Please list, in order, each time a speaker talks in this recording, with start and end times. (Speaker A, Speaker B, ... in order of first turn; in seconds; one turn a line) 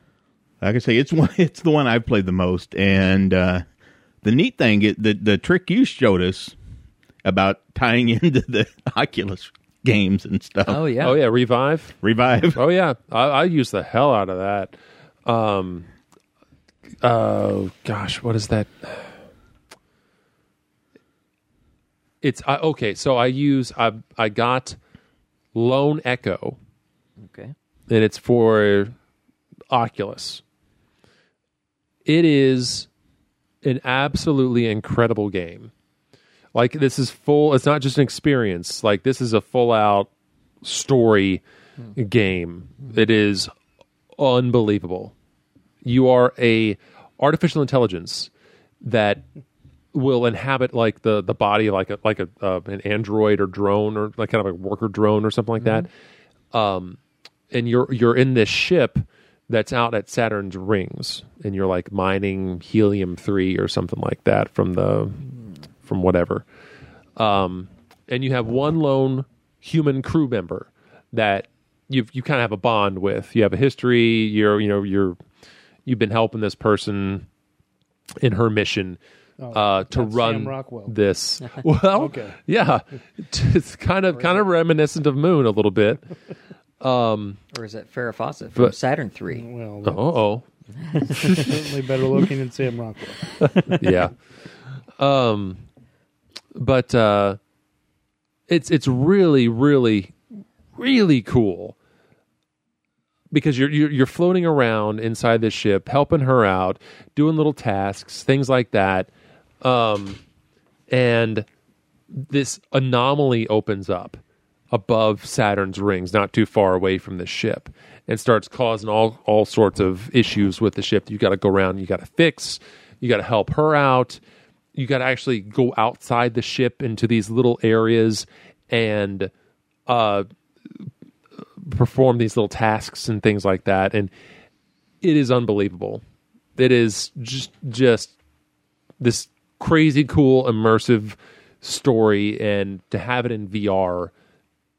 Speaker A: 0.6-3.6
Speaker A: 4.2-6.6
Speaker A: 7.2-10.8
Speaker B: 10.7-11.2
Speaker C: 11.0-12.0
Speaker A: 12.0-12.6
Speaker C: 12.6-14.8
Speaker C: 15.3-15.9
Speaker C: 17.0-19.1
Speaker C: 22.2-24.8
Speaker C: 25.6-26.6
Speaker B: 27.2-27.5
Speaker C: 27.9-28.9
Speaker C: 29.7-30.4
Speaker C: 32.1-32.9
Speaker C: 33.6-35.7
Speaker C: 36.5-40.1
Speaker C: 40.6-41.4
Speaker C: 42.0-43.5
Speaker C: 44.2-45.1
Speaker C: 45.8-48.3
Speaker C: 48.8-49.2
Speaker C: 49.9-55.9
Speaker C: 56.5-57.0
Speaker C: 57.5-65.3
Speaker C: 65.8-66.5
Speaker C: 67.2-75.2
Speaker C: 75.9-77.3
Speaker C: 78.2-79.0
Speaker D: 79.4-80.9
Speaker C: 79.5-86.1
Speaker D: 81.9-82.3
Speaker B: 84.1-84.5
Speaker C: 86.8-87.4
Speaker B: 87.5-89.5
Speaker D: 89.3-90.2
Speaker C: 89.8-90.4
Speaker B: 90.8-91.5
Speaker D: 91.1-93.3
Speaker C: 93.4-94.1
Speaker C: 95.0-95.6
Speaker C: 96.5-97.4
Speaker C: 98.5-100.2
Speaker C: 100.8-101.8
Speaker C: 103.3-109.1
Speaker C: 109.6-110.2
Speaker C: 110.9-111.5
Speaker C: 112.1-114.2
Speaker C: 114.7-124.2
Speaker C: 124.8-129.3
Speaker C: 129.9-130.3
Speaker C: 131.6-134.1
Speaker C: 135.0-136.0
Speaker C: 136.6-138.1
Speaker C: 139.0-144.1